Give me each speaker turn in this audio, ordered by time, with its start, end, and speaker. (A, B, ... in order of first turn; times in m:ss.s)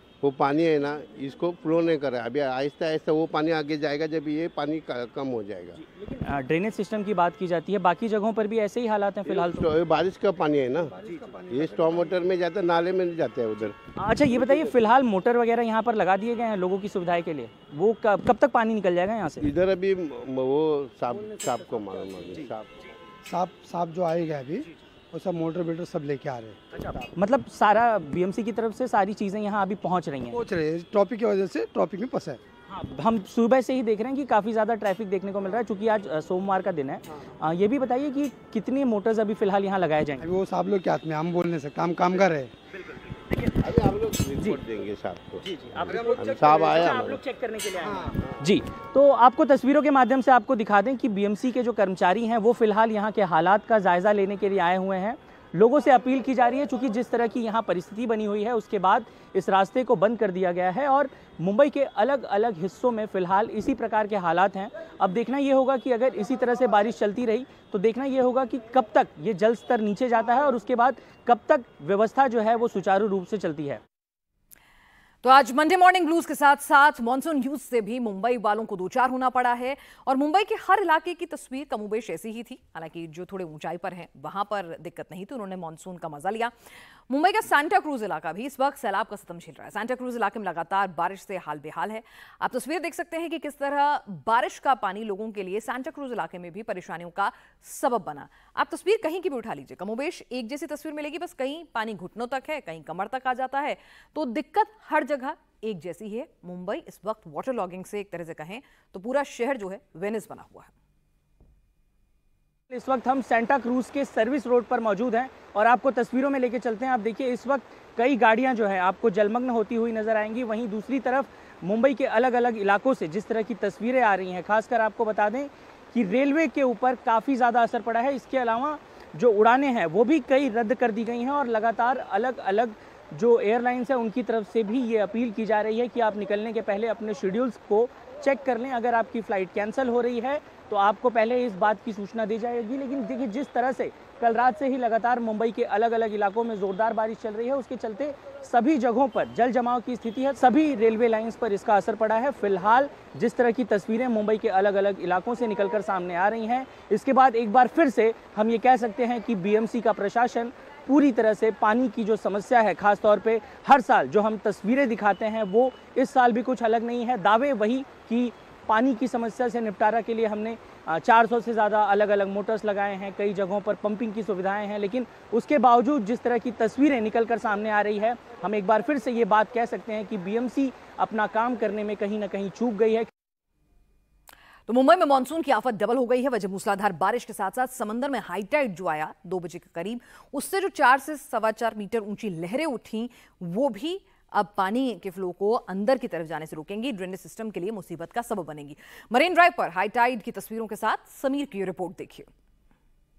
0:00.2-0:05.8 A
0:05.8-0:09.7 B
0:09.2-0:13.8 A
0:11.0-0:12.0 C
0:14.0-0:19.4 B
0:14.3-0:14.8 A
0:19.4-0:22.7 A
0:23.2-0:26.6 C
0:26.8-0:30.3 B
0:30.3-0:32.4 C
0:32.7-0:40.2 B
0:40.2-0:42.5 C
0:42.9-0:43.5 B
0:43.4-0:47.2 A
0:45.4-1:13.8 B
0:45.9-0:46.7 C
1:15.2-1:26.5 D
1:27.1-1:50.7 D
1:52.7-3:03.1 B
3:04.7-3:22.3 D